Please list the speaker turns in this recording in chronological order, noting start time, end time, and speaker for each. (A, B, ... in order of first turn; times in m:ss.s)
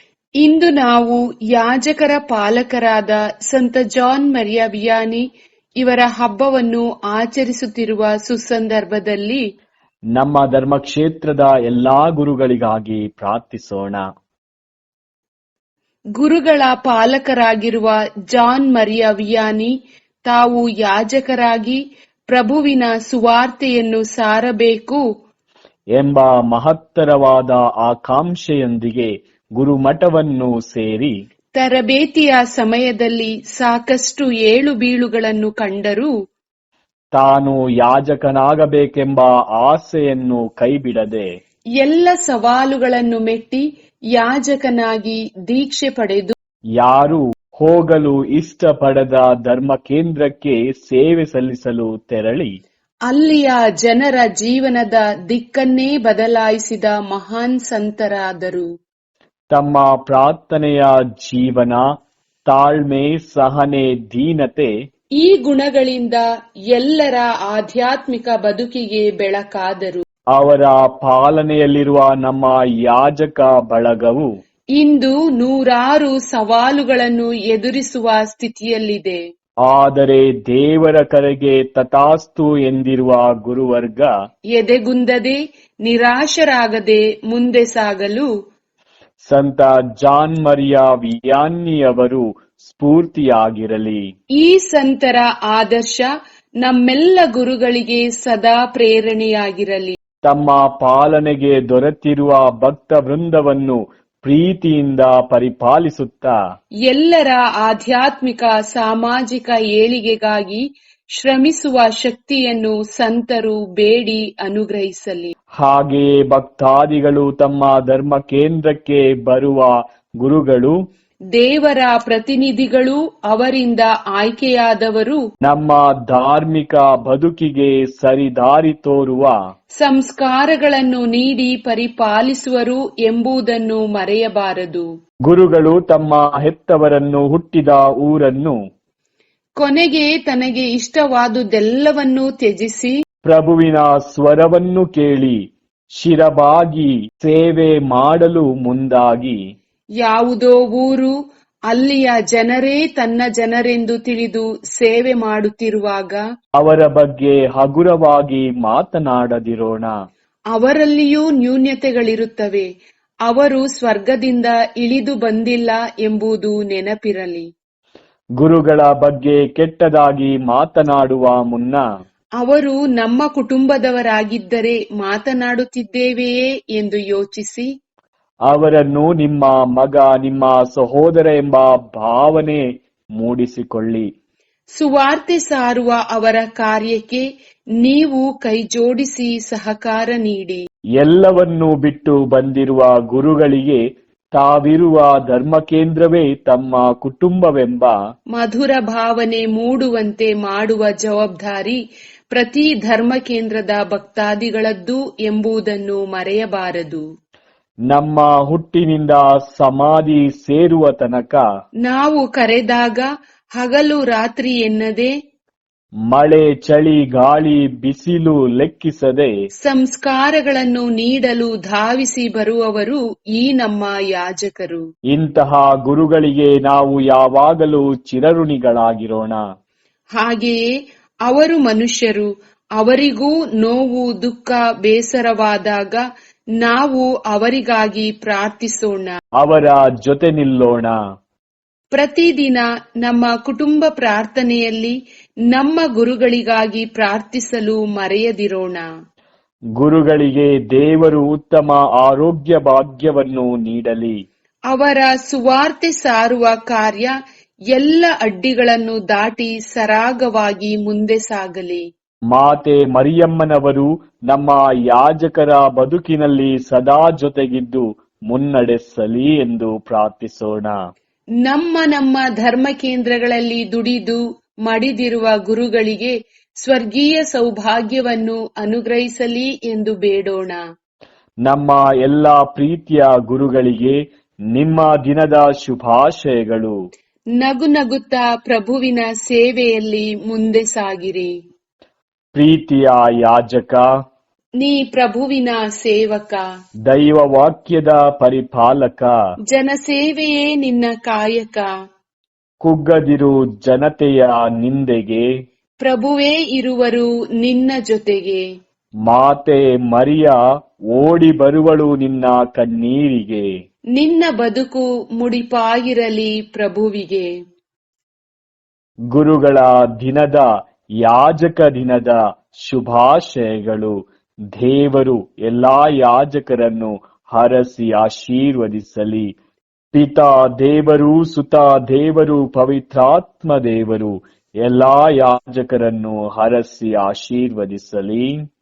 0:00.4-0:05.2 A
0:05.8-0:09.4 A
0:10.2-0:14.0 B
0:16.2-0:19.7 A
0:20.3-0:21.8 A
0:22.3-0:25.0 A
0:26.0-0:31.1 B
0:31.6-0:36.1 A
0:37.2-0:41.2 B
0:41.8-0:43.6 A
0:44.2-0:46.4 A
0:46.8-0:52.6 B
0:53.1-0:58.7 A
0:59.5-1:01.9 B
1:02.5-1:04.7 B
1:05.2-1:10.0 A
1:10.4-1:14.3 B
1:14.8-1:19.2 A
1:19.7-1:24.1 B
1:24.5-1:28.3 A
1:29.2-1:34.0 B
1:34.4-1:36.1 A
1:36.6-1:40.0 A
1:40.3-1:46.4 B
1:46.9-1:50.6 A
1:51.2-1:55.3 A
1:55.6-2:00.8 B
2:01.4-2:05.2 A
2:05.5-2:09.3 B
2:09.8-2:14.9 A
2:15.3-2:18.6 B
2:19.6-2:23.0 A
2:23.2-2:25.4 B
2:26.0-2:29.4 B
2:30.0-2:31.1 A
2:31.7-2:36.2 A
2:36.6-2:39.9 B
2:40.5-2:42.7 A
2:43.3-2:47.4 A
2:48.4-2:51.8 B
2:52.4-2:57.7 A
2:58.5-3:02.6 B
3:03.2-3:04.1 B
3:04.8-3:07.2 A
3:07.8-3:10.6 A
3:11.0-3:13.8 B
3:14.3-3:17.9 B
3:18.4-3:21.8 A
3:22.3-3:27.0 A
3:27.9-3:31.4 B
3:31.9-3:33.1 A
3:33.6-3:35.1 A
3:36.1-3:39.3 B
3:39.6-3:44.8 A
3:45.1-3:49.4 B
3:50.2-3:50.7 A
3:51.3-3:52.3 A
3:52.8-3:56.0 A
3:56.6-3:59.2 A
3:59.4-4:01.0 B
4:02.0-4:04.9 A
4:05.5-4:08.9 A
4:09.8-4:14.2 B
4:14.7-4:17.1 A
4:17.7-4:21.8 A
4:22.3-4:30.8 B
4:31.4-4:40.6 A
4:41.5-4:44.0 B
4:44.5-4:46.7 B
4:47.4-4:51.3 A
4:52.3-4:53.9 B
4:54.6-4:56.4 A
4:56.9-4:59.1 B
4:59.5-5:01.7 A
5:02.6-5:05.2 B
5:05.8-5:08.4 A
5:09.1-5:10.4 B
5:10.9-5:13.5 B
5:14.0-5:17.3 A
5:19.1-5:20.5 B
5:21.0-5:24.0 B
5:24.6-5:29.3 B
5:29.9-5:38.4 B